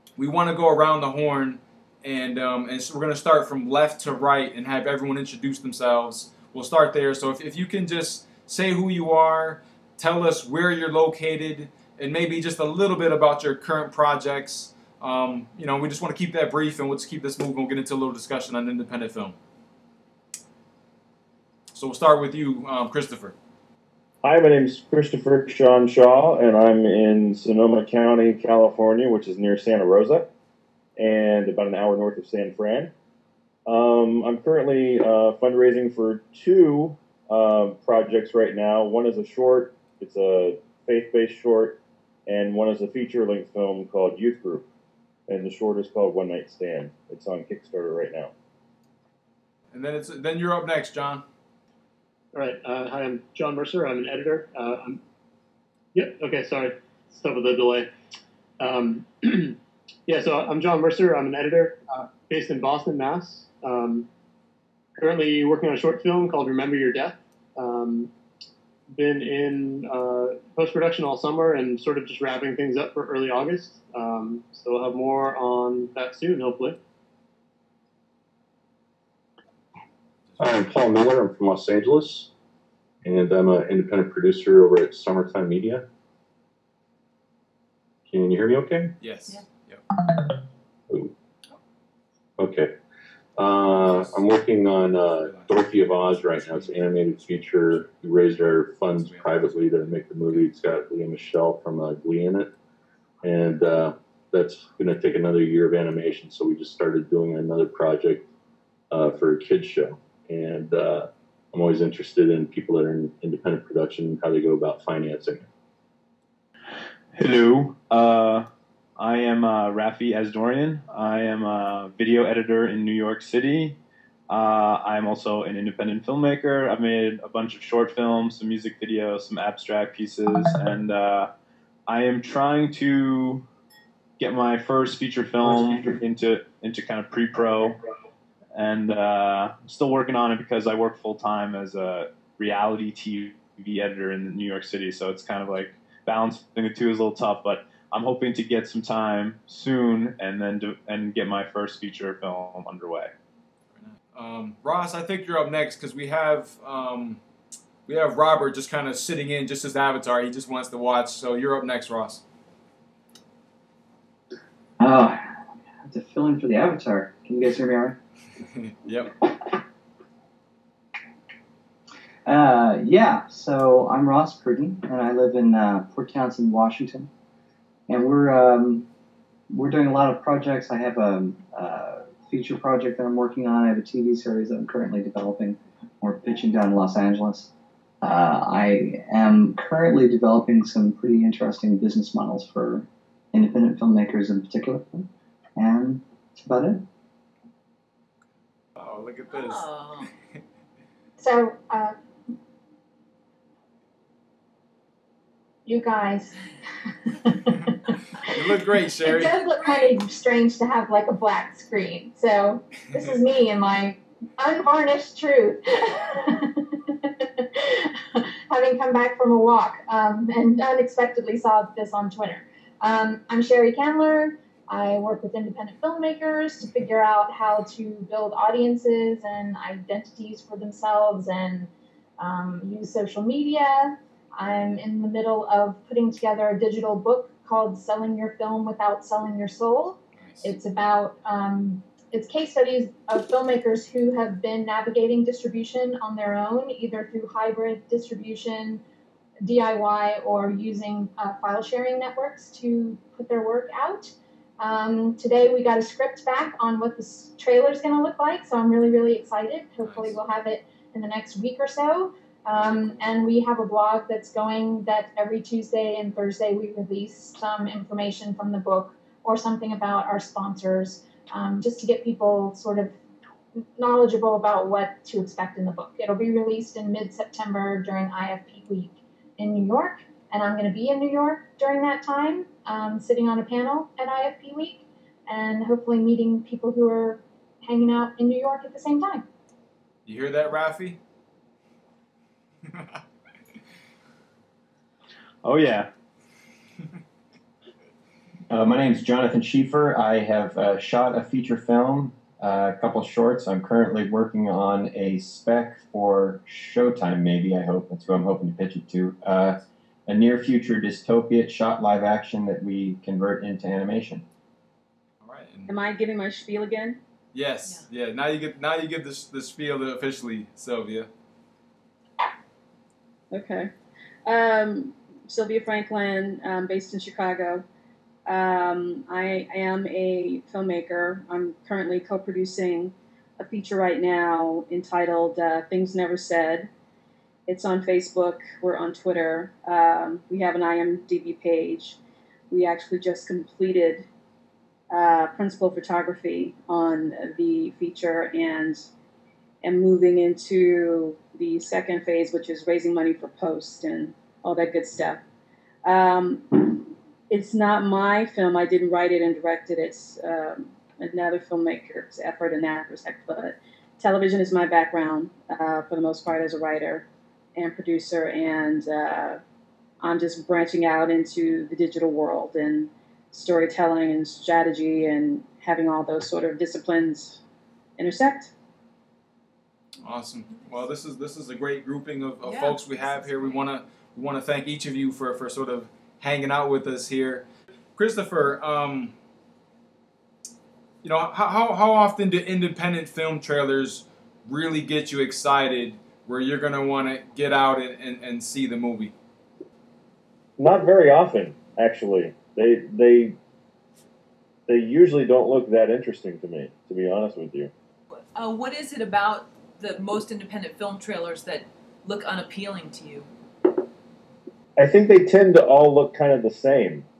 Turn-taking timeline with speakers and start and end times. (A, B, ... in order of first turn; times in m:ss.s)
0:00.2-0:19.4 A
0:21.7-0:23.4 A
0:24.2-0:30.3 B
0:31.0-0:32.9 B
0:33.7-0:44.6 B
0:45.3-0:48.3 B
0:49.7-0:51.2 A
0:52.3-0:55.0 C
0:55.9-0:57.9 C
0:58.6-1:04.0 C
1:05.0-1:08.1 C
1:08.9-1:16.8 C
1:20.3-1:20.6 A
1:20.4-1:22.3 D
1:23.0-1:25.8 D
1:28.1-1:28.9 D
1:29.0-1:29.8 A
1:32.4-1:32.7 D
1:33.4-1:42.5 D
1:33.7-1:34.3 A
1:34.9-1:37.9 A
1:38.8-1:40.5 A
1:43.2-1:48.3 D
1:48.9-1:55.4 D
1:57.1-1:58.5 E
1:59.0-2:03.8 E
2:04.3-2:11.3 E
2:11.9-2:13.4 E
2:14.2-2:17.8 E
2:15.5-2:15.9 F
2:18.5-2:33.1 E
2:33.8-2:37.2 A
2:37.8-2:42.2 A
2:44.8-2:45.2 F
2:45.8-2:48.0 F
2:48.5-2:49.2 A
2:52.2-2:57.1 F
2:57.9-2:58.8 F
2:59.5-3:16.8 F
3:18.8-3:19.7 A
3:19.3-3:20.1 G
3:21.2-3:21.9 H
3:25.6-3:26.3 H
3:27.1-3:27.8 H
3:28.2-3:29.4 A
3:29.0-4:08.8 H
4:00.2-4:00.5 A
4:09.4-4:32.9 H
4:19.8-4:20.2 A
4:22.6-4:23.0 A
4:33.8-4:49.2 H
4:50.0-4:51.0 A
4:55.4-4:55.9 E
4:58.5-5:14.2 I
5:15.2-5:15.7 A
5:15.7-5:17.0 J
5:17.3-5:21.1 A
5:23.3-5:23.7 J
5:24.2-5:27.6 J
5:28.2-5:36.7 J
5:37.5-5:42.0 J
5:42.5-5:44.0 J
5:44.9-5:48.8 J
5:49.6-5:55.2 J
5:55.8-6:09.4 J
6:10.0-6:17.4 J
6:18.0-6:18.5 J
6:20.0-6:29.1 A
6:22.4-6:23.7 G
6:31.0-6:39.1 A
6:40.6-6:43.4 B
6:44.7-6:47.7 B
6:48.1-6:53.3 G
6:54.8-6:57.0 B